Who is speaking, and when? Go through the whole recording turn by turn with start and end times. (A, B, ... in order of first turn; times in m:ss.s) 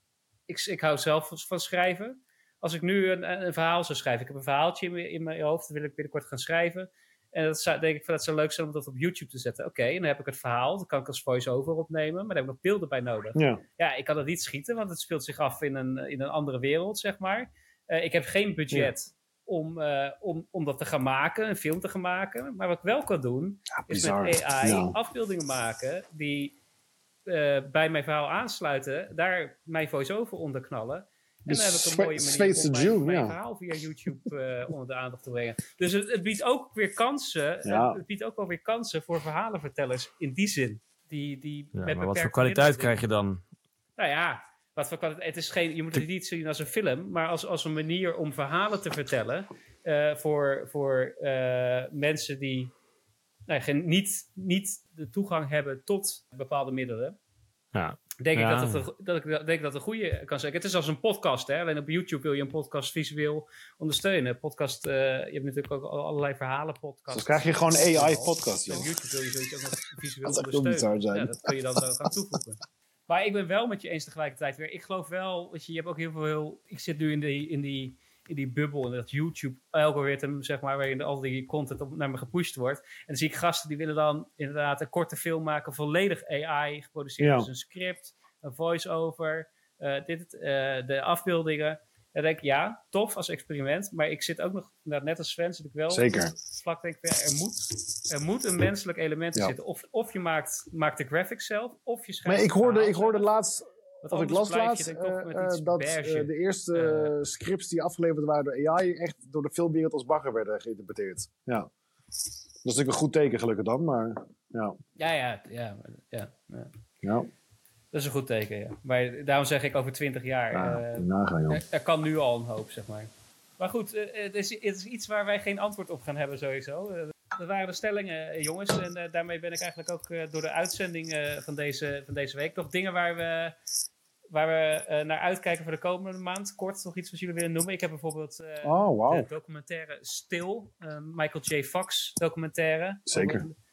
0:00.5-0:26.6 A
0:13.3-0:13.6 B
0:23.8-0:25.0 B
0:27.3-0:43.0 A
0:31.5-0:33.4 B
0:37.6-0:38.0 B
0:41.7-0:43.4 C
0:44.0-0:52.7 A
0:53.5-0:57.2 A
0:57.7-0:58.8 C
0:58.2-1:43.3 A
1:07.1-1:08.9 B
1:10.2-1:12.1 B
1:27.2-1:27.5 B
1:35.9-1:36.3 B
1:42.2-1:51.7 B
1:44.0-1:47.1 A
1:52.6-1:54.8 B
1:55.0-1:56.7 A
1:57.0-1:57.3 B
1:57.9-2:13.5 A
2:00.5-2:01.6 B
2:14.3-2:23.5 A
2:18.6-2:19.3 B
2:23.1-2:23.4 B